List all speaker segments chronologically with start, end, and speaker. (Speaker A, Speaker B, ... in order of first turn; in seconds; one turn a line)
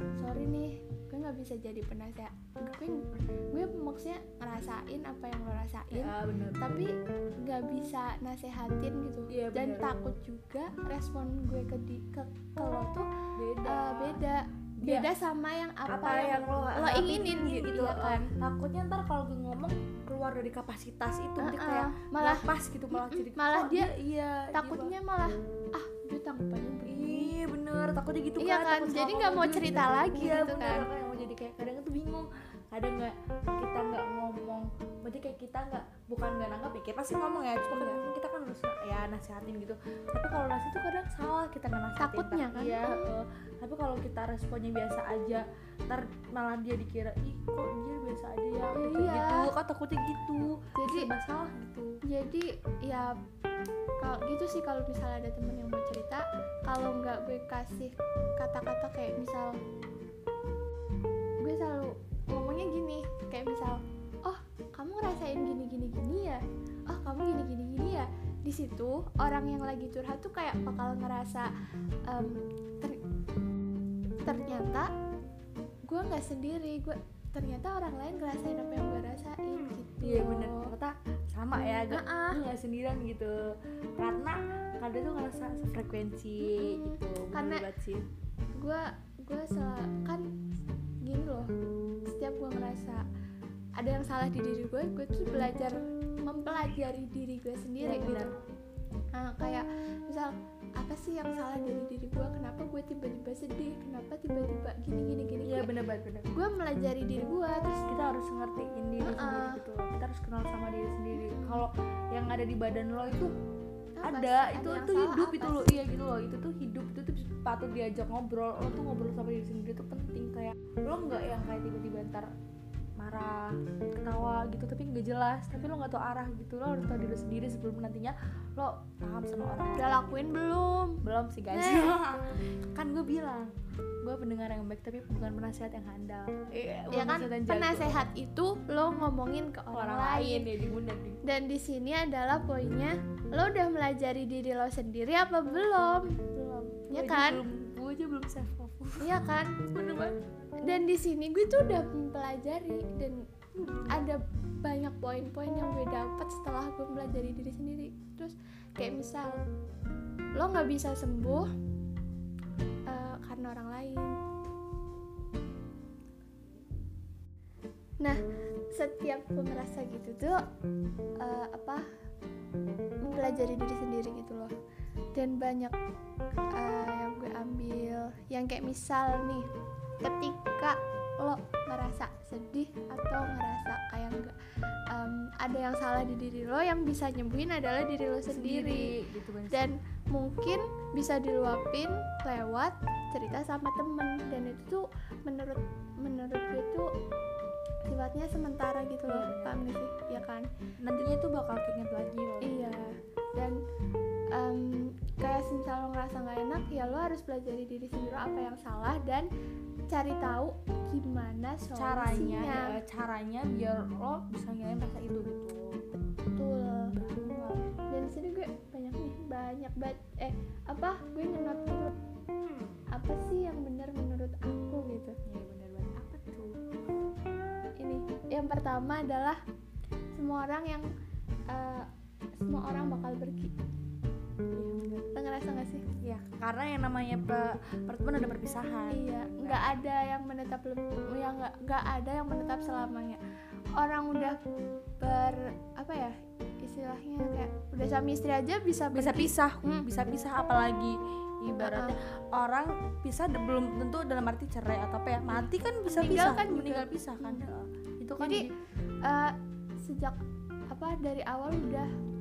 Speaker A: 0.2-6.9
Speaker B: 5.9-6.6
Speaker A: 7.4-13.1
Speaker B: 9.3-9.9
Speaker B: 13.4-14.2
Speaker A: 13.6-18.3
Speaker B: 14.8-15.1
Speaker B: 15.9-24.9
Speaker A: 21.4-23.9
Speaker A: 24.5-27.3
Speaker B: 26.9-52.0
Speaker A: 28.4-30.9
Speaker A: 37.7-38.0
Speaker A: 42.0-43.1
Speaker A: 48.7-49.5
Speaker A: 50.8-51.1
Speaker A: 52.0-53.2
Speaker A: 54.0-59.6
Speaker A: 61.4-71.5
Speaker A: 72.1-73.0
Speaker A: 74.2-74.9
Speaker A: 75.9-80.7
Speaker B: 80.0-83.3
Speaker A: 81.9-82.4
Speaker B: 84.0-88.1
Speaker A: 86.4-87.7
Speaker A: 88.6-90.2
Speaker A: 91.0-91.5
Speaker A: 92.1-93.0
Speaker A: 93.8-98.3
Speaker B: 97.8-98.4
Speaker A: 99.2-105.7
Speaker B: 105.5-106.3
Speaker A: 106.3-107.8
Speaker B: 107.9-113.3
Speaker A: 109.0-109.6
Speaker A: 111.2-111.7
Speaker A: 114.0-115.7
Speaker B: 114.0-122.3
Speaker B: 123.0-130.4
Speaker A: 129.8-132.0
Speaker B: 131.0-133.5
Speaker B: 134.0-138.0
Speaker A: 136.9-140.5
Speaker B: 139.7-141.2
Speaker A: 141.2-146.3
Speaker B: 146.3-150.2
Speaker A: 146.9-147.4
Speaker A: 149.0-149.6
Speaker A: 150.7-153.3
Speaker B: 153.6-154.0
Speaker A: 153.9-159.4
Speaker A: 160.4-161.5
Speaker A: 162.9-164.2
Speaker A: 168.7-170.4
Speaker A: 171.2-171.8
Speaker A: 173.0-174.5
Speaker A: 175.2-175.8
Speaker A: 176.6-179.5
Speaker A: 180.0-184.3
Speaker A: 184.9-188.9
Speaker B: 188.3-189.7
Speaker A: 189.5-196.9
Speaker A: 197.9-200.5
Speaker B: 199.1-199.6
Speaker B: 200.8-203.0
Speaker A: 202.4-203.6
Speaker A: 204.3-209.3
Speaker A: 209.9-212.8
Speaker B: 211.8-215.8
Speaker A: 216.4-216.9
Speaker B: 216.9-217.7
Speaker A: 217.9-221.9
Speaker A: 222.9-225.2
Speaker B: 225.3-226.8
Speaker A: 227.8-229.4
Speaker A: 230.2-230.9
Speaker A: 231.5-231.9
Speaker A: 232.4-233.5
Speaker B: 234.5-235.1
Speaker A: 235.1-235.8
Speaker B: 236.0-239.8
Speaker A: 238.9-243.2
Speaker A: 243.8-244.4
Speaker A: 245.0-249.8
Speaker B: 248.9-258.5
Speaker A: 251.6-251.9
Speaker A: 255.3-257.4
Speaker A: 258.2-258.5
Speaker A: 259.0-260.2
Speaker A: 260.7-261.9